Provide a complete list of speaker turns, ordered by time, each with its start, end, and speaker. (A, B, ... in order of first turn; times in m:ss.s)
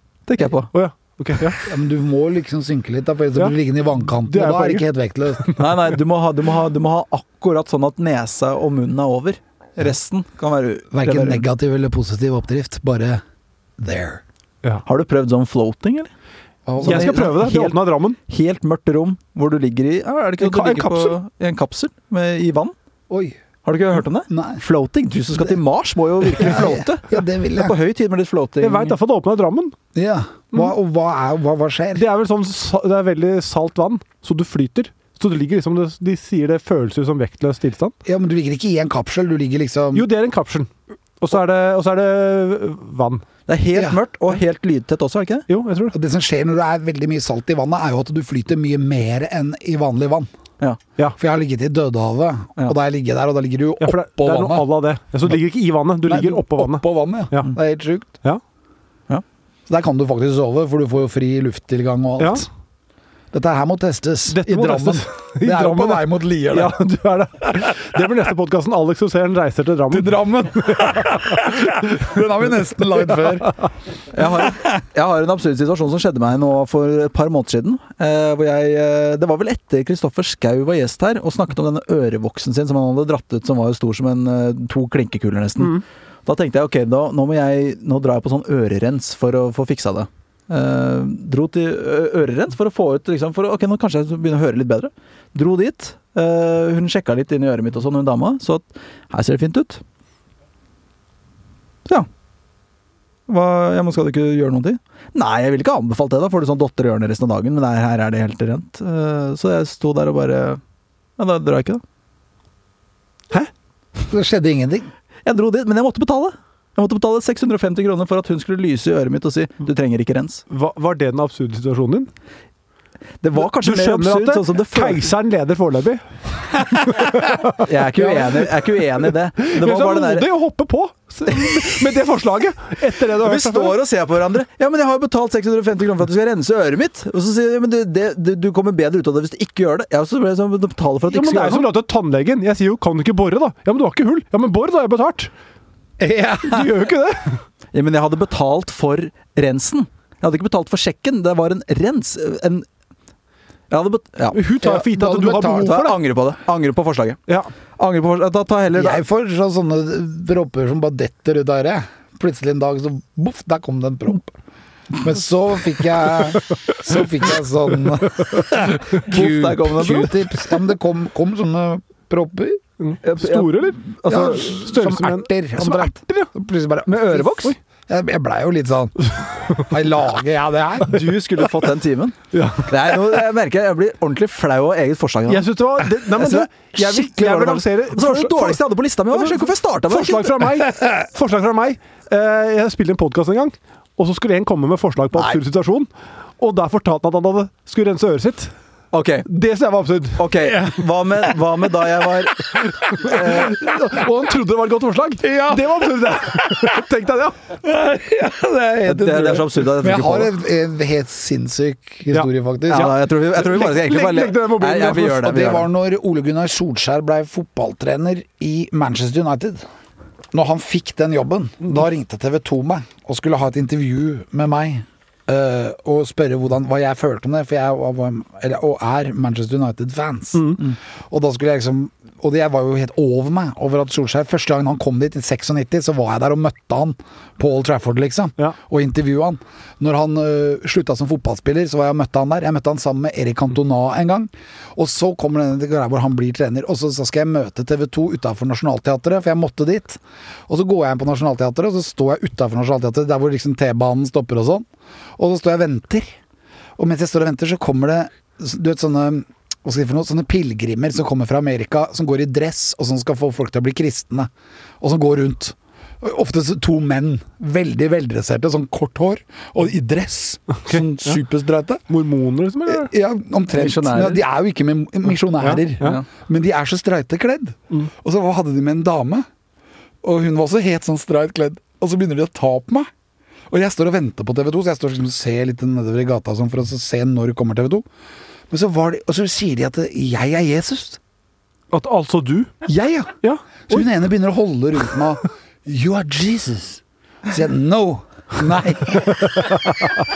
0:00.3-0:00.7 A
0:00.7-0:01.6 B
0:01.6-0:05.5 C
0:04.1-0:04.8 B
0:05.6-0:11.4 A
0:10.9-0:13.2 C
0:13.8-0:14.2 C
0:14.8-0:16.1 A
0:16.6-0:17.3 C
0:16.8-0:22.7 A
0:16.8-0:18.2 B
0:20.4-0:21.2 B
0:23.1-0:23.4 C
0:23.6-0:28.9 A
0:24.3-0:24.6 C
0:26.3-0:27.7 C
0:28.6-0:29.8 B
0:29.9-0:32.0 C
0:31.9-0:37.9 B
0:38.0-0:40.1 C
0:39.9-0:43.2 B
0:43.5-0:45.5 A
0:45.5-0:45.9 B
0:45.9-0:50.3 C
0:51.2-0:54.7 C
0:53.8-0:57.5 B
0:56.0-0:58.1 C
0:59.7-1:02.4 C
1:02.2-1:02.4 B
1:03.3-1:06.8 C
1:04.3-1:10.9 B
1:09.9-1:13.6 C
1:14.1-1:39.8 A
1:43.3-1:50.6 A
1:51.2-1:51.8 A
1:54.1-1:54.9 C
1:55.2-2:00.4 A
2:00.5-2:02.1 B
2:03.2-2:05.0 A
2:03.4-2:06.0 B
2:06.6-2:08.8 B
2:07.6-2:10.3 A
2:09.4-2:13.8 B
2:11.3-2:11.7 A
2:13.1-2:21.7 A
2:21.1-2:25.3 B
2:26.0-2:26.8 C
2:26.4-2:27.4 B
2:27.7-2:32.7 A
2:33.7-2:34.4 A
2:34.3-2:36.0 B
2:34.6-2:35.8 C
2:35.4-2:37.2 A
2:37.8-2:39.0 A
2:38.7-2:44.3 C
2:44.9-2:52.6 C
2:48.9-2:50.3 A
2:52.8-2:56.3 B
2:53.0-2:54.5 A
2:54.0-3:01.2 C
2:56.8-2:57.5 A
3:00.8-3:10.5 A
3:02.3-3:02.9 B
3:05.3-3:08.6 B
3:09.1-3:18.5 B
3:18.9-3:19.3 A
3:19.2-3:20.6 B
3:20.2-3:23.6 A
3:22.5-3:27.4 B
3:25.2-3:26.7 C
3:27.6-3:32.9 C
3:28.8-3:30.3 A
3:32.1-3:35.4 B
3:32.7-3:35.7 A
3:35.1-3:39.6 C
3:40.3-4:14.6 C
3:50.4-3:50.6 B
4:15.2-4:16.1 C
4:16.8-4:24.3 C
4:24.8-4:31.8 C
4:30.6-4:31.2 B
4:31.9-4:32.9 B
4:32.7-4:39.3 C
4:33.5-4:34.2 A
4:35.4-4:36.0 B
4:40.0-4:42.9 C
4:43.5-4:47.8 C
4:48.5-4:51.0 C
4:51.7-4:52.5 B
4:52.6-4:53.1 C
4:53.2-4:53.8 B
4:53.7-4:59.6 C